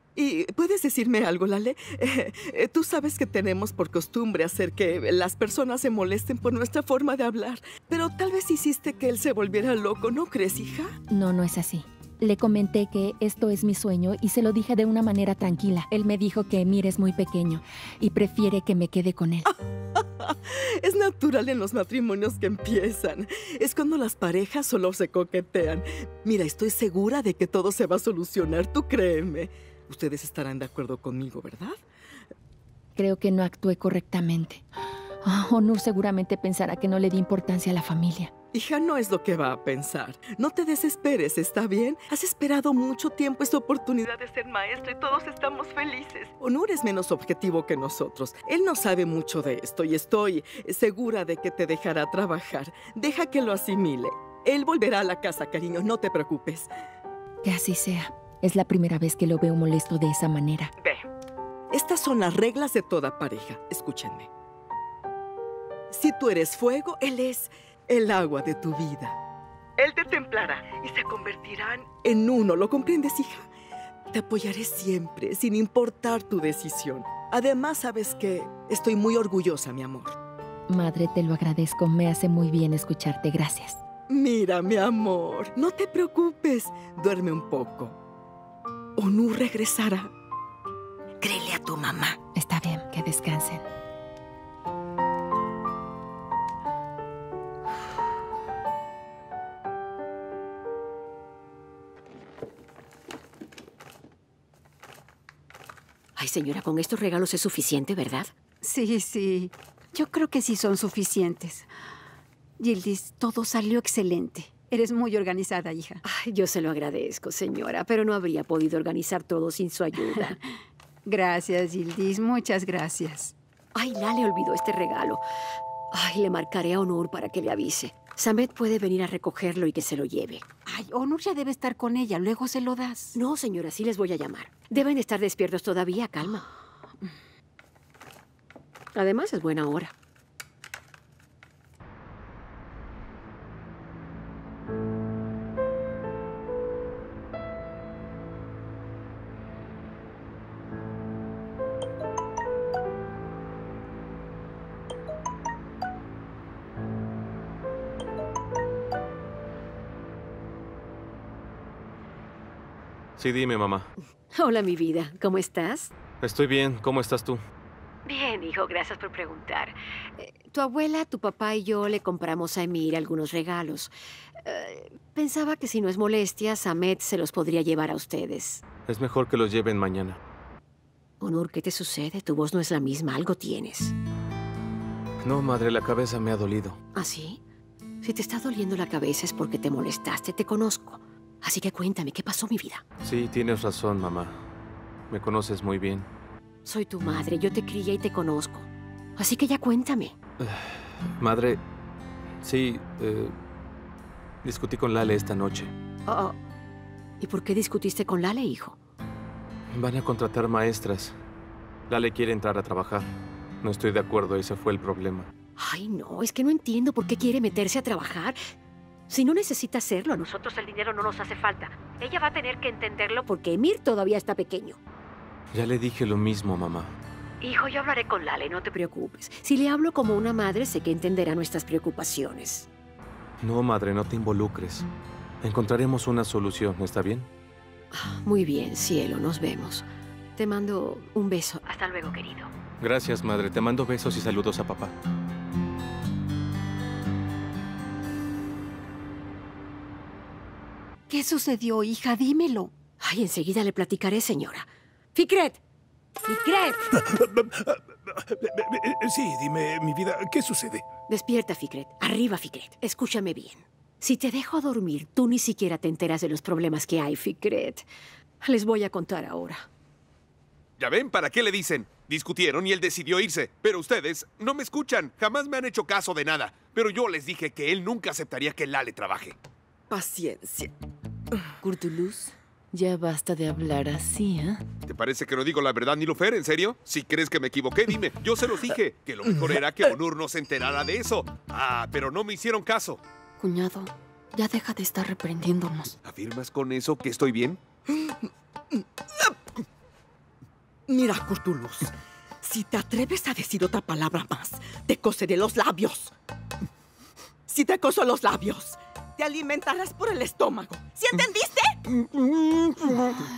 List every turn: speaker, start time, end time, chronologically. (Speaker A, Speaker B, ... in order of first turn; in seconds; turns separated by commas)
Speaker A: 0.2-10.9, Speaker B: 11.1-19.5, Speaker A: 19.5-31.8, Speaker B: 33.0-34.6, Speaker B: 35.2-38.3, Speaker A: 38.5-56.7, Speaker B: 57.4-60.7, Speaker A: 61.7-64.3, Speaker A: 65.9-69.2, Speaker A: 69.8-73.5, Speaker A: 74.1-80.2, Speaker B: 80.7-83.8, Speaker A: 84.1-88.0, Speaker A: 89.0-90.1, Speaker B: 92.3-93.6, Speaker C: 106.2-108.3, Speaker D: 108.7-109.4, Speaker D: 110.0-111.6, Speaker D: 112.6-116.0, Speaker C: 116.0-120.4, Speaker D: 121.1-123.2, Speaker C: 123.8-125.2, Speaker C: 125.9-130.4, Speaker D: 130.7-132.9, Speaker C: 133.2-136.4, Speaker C: 138.9-139.9, Speaker E: 163.2-163.9, Speaker C: 164.3-165.9, Speaker E: 166.2-167.4, Speaker C: 168.1-173.9, Speaker C: 174.4-178.6, Speaker E: 178.9-180.2, Speaker C: 181.2-183.9, Speaker E: 185.2-186.8, Speaker C: 186.9-187.4, Speaker C: 188.0-192.8, Speaker E: 193.0-194.4, Speaker E: 195.1-196.1, Speaker C: 196.7-200.1, Speaker E: 200.4-201.6, Speaker E: 202.4-203.3, Speaker E: 204.4-205.7, Speaker C: 206.1-206.4, Speaker C: 207.2-208.8, Speaker E: 209.7-211.2, Speaker E: 211.9-215.3, Speaker C: 215.6-218.4, Speaker C: 219.1-224.8, Speaker E: 225.5-227.0, Speaker C: 227.4-232.7, Speaker E: 233.4-234.9, Speaker E: 235.4-237.3, Speaker C: 237.9-242.5, Speaker E: 242.8-244.9, Speaker D: 251.1-252.7, Speaker C: 253.0-255.6, Speaker C: 256.2-256.8, Speaker F: 257.1-260.8, Speaker C: 261.1-267.9, Speaker C: 268.4-269.7, Speaker G: 270.8-279.4, Speaker A: 279.9-280.7, Speaker H: 281.6-284.6, Speaker G: 284.9-293.0, Speaker I: 293.4-295.9, Speaker G: 296.0-297.6, Speaker A: 300.9-301.9, Speaker A: 302.4-306.1, Speaker A: 307.5-311.8, Speaker G: 311.9-313.2